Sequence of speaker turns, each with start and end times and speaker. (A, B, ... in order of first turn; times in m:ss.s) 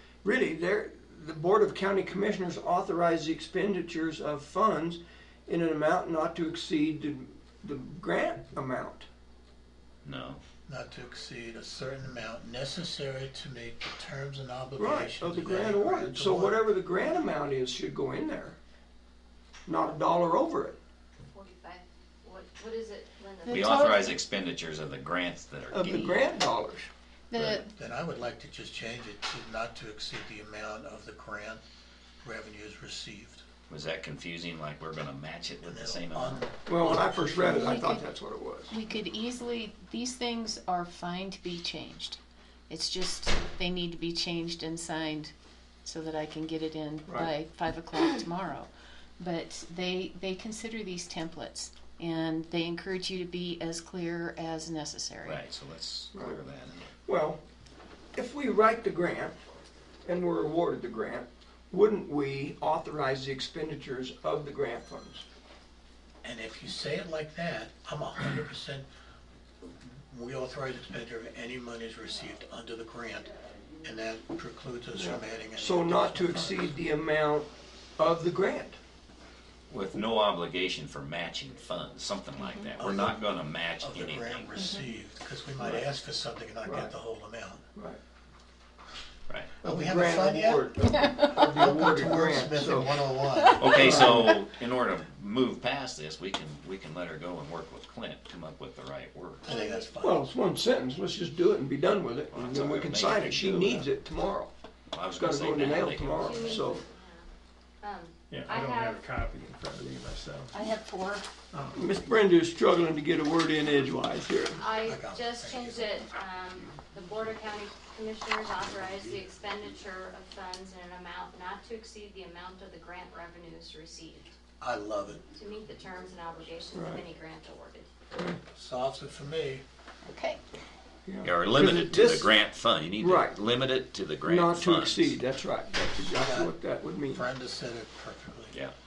0:00.2-0:09.1 A
0:10.0-0:10.4 B
0:10.7-0:16.6 C
0:14.8-0:18.6 A
0:19.6-0:20.8 A
0:21.3-0:23.9 D
0:23.4-0:24.2 E
0:23.5-0:26.4 B
0:25.7-0:26.9 A
0:27.3-0:27.7 E
0:27.3-0:31.6 C
0:32.2-0:33.4 C
0:33.7-0:36.4 B
0:35.6-0:37.6 C
0:36.7-0:38.7 A
0:37.4-0:38.0 E
0:38.7-0:45.3 E
0:45.8-0:55.4 E
0:47.1-0:47.3 A
0:55.2-0:56.9 B
0:56.1-0:56.4 A
0:57.0-0:57.4 A
0:58.1-0:59.4 A
1:00.0-1:05.2 A
1:06.2-1:08.8 C
1:09.8-1:13.3 C
1:13.8-1:16.7 C
1:14.9-1:18.8 A
1:19.7-1:24.5 B
1:22.4-1:22.7 E
1:22.8-1:23.2 C
1:23.8-1:27.6 C
1:24.6-1:24.8 E
1:26.6-1:26.9 A
1:29.6-1:30.7 C
1:29.6-1:34.4 A
1:31.4-1:34.2 C
1:33.6-1:39.5 B
1:39.4-1:40.3 C
1:39.5-1:39.9 D
1:40.0-1:44.5 A
1:42.3-1:43.9 B
1:44.9-1:46.7 B
1:45.1-1:46.8 A
1:46.2-1:47.2 D
1:47.8-1:49.0 D
1:48.3-1:50.6 F
1:50.5-1:51.2 E
1:51.5-1:51.9 F
1:51.7-1:54.6 A
1:54.6-2:04.3 D
1:54.8-1:55.8 C
2:04.6-2:05.2 C
2:05.3-2:07.9 D
2:06.7-2:07.0 A
2:08.5-2:09.6 C
2:10.0-2:10.4 E
2:11.0-2:12.4 A
2:11.2-2:15.2 B
2:13.0-2:13.4 A
2:14.2-2:17.2 A
2:16.1-2:16.5 C
2:17.1-2:18.6 C